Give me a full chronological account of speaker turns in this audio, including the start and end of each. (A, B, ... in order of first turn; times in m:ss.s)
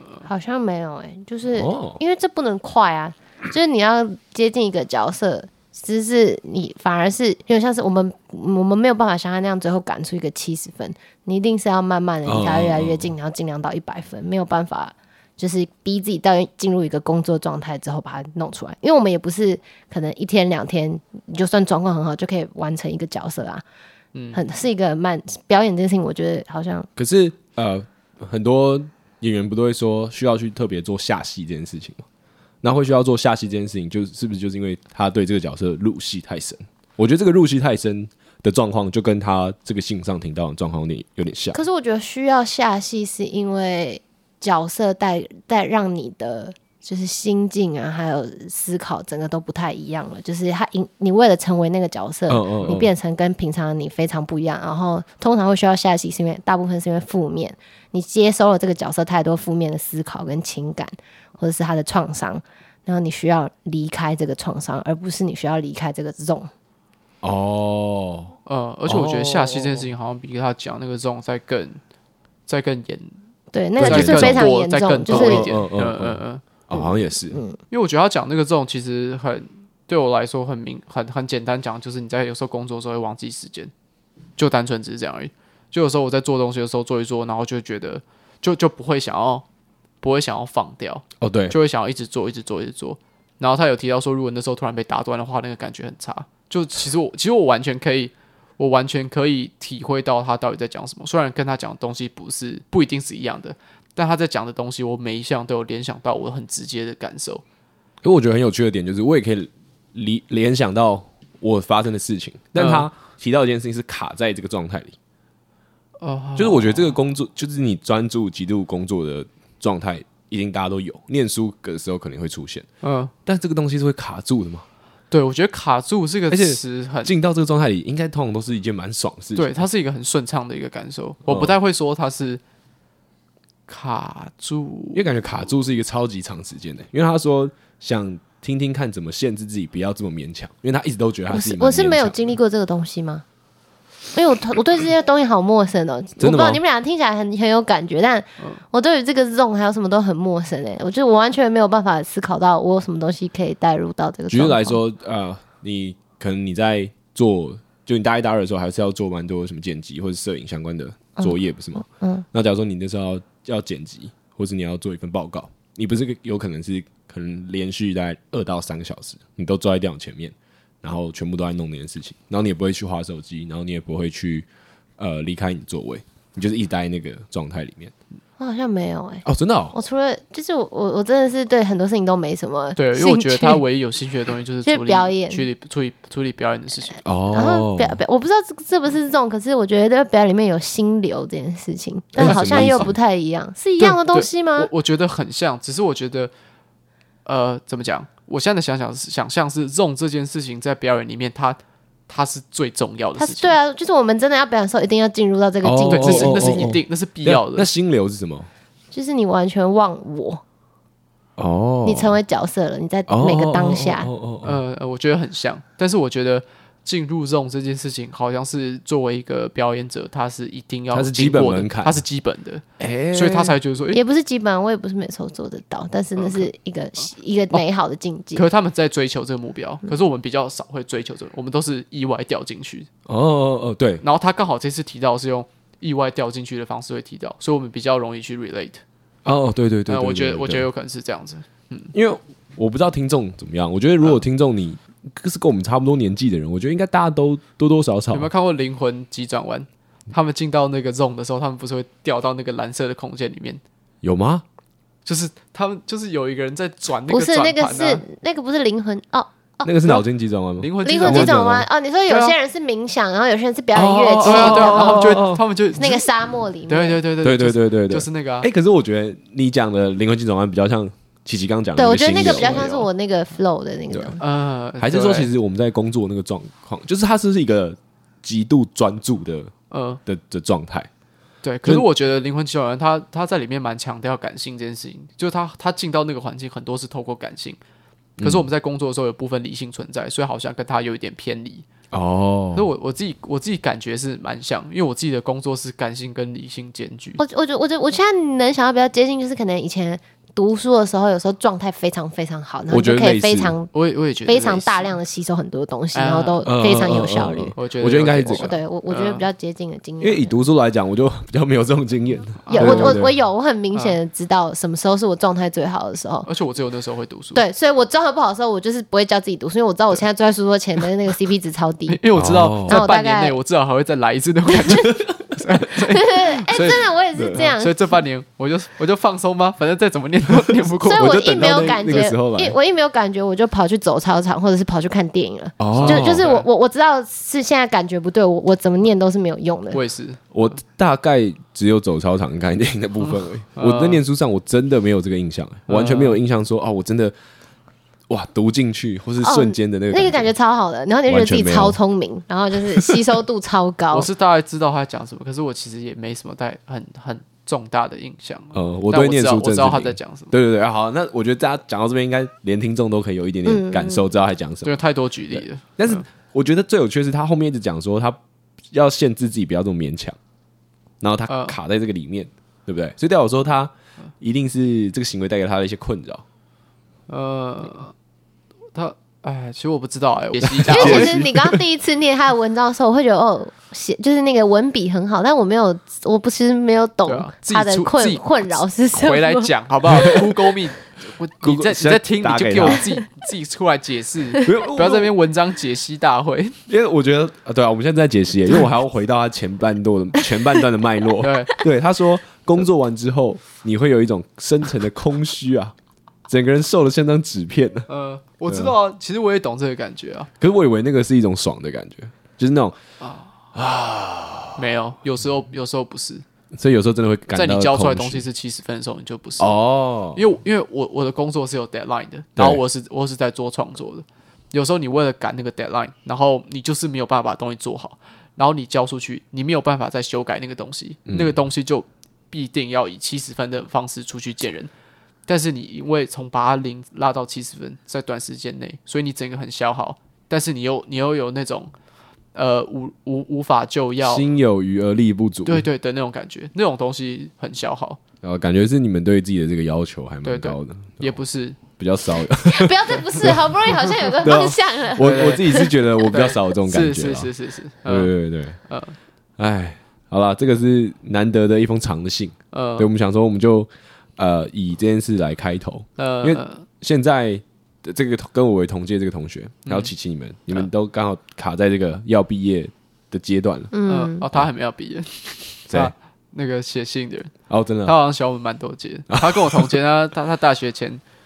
0:00.2-0:23.6 A
0:01.5-0:02.0 B
0:12.2-0:13.1 B
0:24.1-0:24.4 C
0:24.3-0:26.9 A
0:27.0-0:32.0 B
0:32.6-0:41.6 B
0:41.5-1:06.5 A
0:52.3-0:52.9 B
1:07.2-1:08.3 B
1:08.4-1:11.8 C
1:08.8-1:09.9 B
1:12.5-1:13.2 C
1:13.5-1:15.5 A
1:13.8-1:14.5 B
1:13.8-1:16.4 C
1:15.1-1:17.4 B
1:16.8-1:17.6 A
1:17.7-1:23.7 C
1:24.4-1:29.4 C
1:30.0-1:47.4 C
1:31.2-1:31.6 B
1:48.0-1:55.0 B
1:52.5-1:52.9 C
1:56.0-1:57.0 C
1:56.4-2:02.7 B
2:02.8-2:03.1 C
2:03.2-2:04.6 B
2:05.1-2:07.1 C
2:06.3-2:09.6 B
2:09.4-2:12.4 C
2:11.3-2:11.6 B
2:13.7-2:15.1 C
2:14.9-2:22.2 B
2:21.3-2:23.2 A
2:24.1-2:34.8 A
2:26.2-2:26.6 B
2:34.3-2:54.5 B
2:41.2-2:42.2 A
2:55.0-2:57.9 B
2:58.4-3:03.6 A
2:59.2-2:59.7 B
3:02.8-3:07.0 C
3:04.6-3:05.4 A
3:07.0-3:08.0 B
3:07.3-3:14.7 A
3:12.2-3:12.9 B
3:12.2-3:12.8 C
3:13.8-3:16.3 C
3:17.2-3:23.6 C
3:23.2-3:26.7 A
3:25.6-3:28.5 B
3:25.9-3:27.7 C
3:28.9-3:30.4 A
3:31.4-3:32.2 B
3:31.8-3:34.1 A
3:33.1-3:34.6 B
3:34.4-3:44.0 C
3:40.9-3:42.0 B
3:42.8-3:43.6 B
3:43.9-3:48.4 A
3:46.2-3:46.5 C
3:48.3-3:52.9 C
3:53.0-3:54.0 B
3:54.0-3:58.8 C
3:59.2-4:00.7 B
3:59.9-4:01.9 C
4:01.9-4:08.3 B
4:08.1-4:13.6 C
4:14.0-4:14.4 B
4:15.0-4:18.0 C
4:17.1-4:20.0 A
4:19.6-4:21.7 B
4:20.6-4:21.4 C
4:20.8-4:25.2 A
4:22.1-4:22.4 C
4:23.7-4:25.4 B
4:24.2-4:26.1 C
4:25.7-4:27.0 A
4:26.7-4:28.5 C
4:27.2-4:32.7 B
4:31.8-4:34.2 A
4:32.1-4:32.9 C
4:33.9-4:34.2 B
4:34.2-4:35.3 C
4:34.8-4:39.5 B
4:39.7-4:40.0 C
4:40.0-4:40.9 B
4:41.4-4:47.6 C
4:48.2-4:48.5 B
4:48.2-4:51.6 C
4:51.9-4:52.7 B
4:52.5-4:57.2 C
4:57.2-5:03.7 A
5:02.7-5:03.5 B
5:03.7-5:05.0 C
5:04.2-5:07.6 A
5:05.9-5:06.4 C
5:06.4-5:08.5 B
5:07.6-5:09.2 C
5:08.2-5:10.3 A
5:10.0-5:13.1 B
5:12.4-5:13.0 C
5:12.5-5:16.3 A
5:16.2-5:17.4 C
5:17.3-5:22.0 A
5:21.9-5:32.0 C
5:22.1-5:22.9 B
5:22.6-5:23.3 A
5:24.5-5:25.0 A
5:25.6-5:27.8 A
5:27.2-5:27.4 B
5:30.8-5:39.8 A
5:30.9-5:32.6 B
5:35.6-5:36.3 B
5:35.7-5:36.5 C
5:39.7-5:40.2 C
5:40.3-5:47.1 B
5:43.6-5:44.0 C
5:45.7-5:46.2 C
5:48.1-5:50.3 B
5:49.2-5:54.1 A
5:51.1-5:51.8 B
5:53.9-6:00.3 C
5:58.5-6:04.8 B
6:03.4-6:04.0 A
6:04.6-6:06.0 C
6:05.3-6:08.2 B
6:08.7-6:10.2 B
6:11.0-6:16.2 B
6:11.3-6:11.6 C
6:17.1-6:17.9 C
6:18.7-6:21.2 C
6:20.4-6:21.6 B
6:20.7-6:30.2 A
6:27.0-6:36.6 C
6:29.9-6:30.2 B
6:31.4-6:32.9 B
6:34.4-6:35.1 B
6:36.7-6:45.7 B
6:41.2-6:41.6 C
6:46.3-6:47.9 B
6:47.9-6:50.3 C
6:48.5-6:48.7 B
6:50.4-6:52.8 B
6:53.0-6:53.3 C
6:53.5-6:54.7 B
6:54.6-6:56.2 C
6:56.5-6:58.3 B
6:57.3-6:59.6 C
6:59.4-7:00.2 B
7:00.1-7:14.7 C
7:11.1-7:11.4 B
7:15.3-7:21.7 C
7:22.3-7:24.3 C
7:24.0-7:25.7 B
7:25.4-7:28.0 C
7:28.2-7:31.2 B
7:30.2-7:31.6 C
7:31.8-7:33.5 B
7:32.4-7:35.7 A
7:34.2-7:37.3 B
7:35.0-7:38.1 C
7:37.8-7:38.6 B
7:38.7-7:39.0 C
7:39.4-7:53.7 B
7:42.5-7:42.9 C
7:46.0-7:46.6 C
7:49.6-7:49.9 C
7:53.7-7:54.2 A
7:53.9-7:57.3 C
7:57.5-7:57.9 B
7:57.8-8:01.0 C
7:59.1-7:59.8 B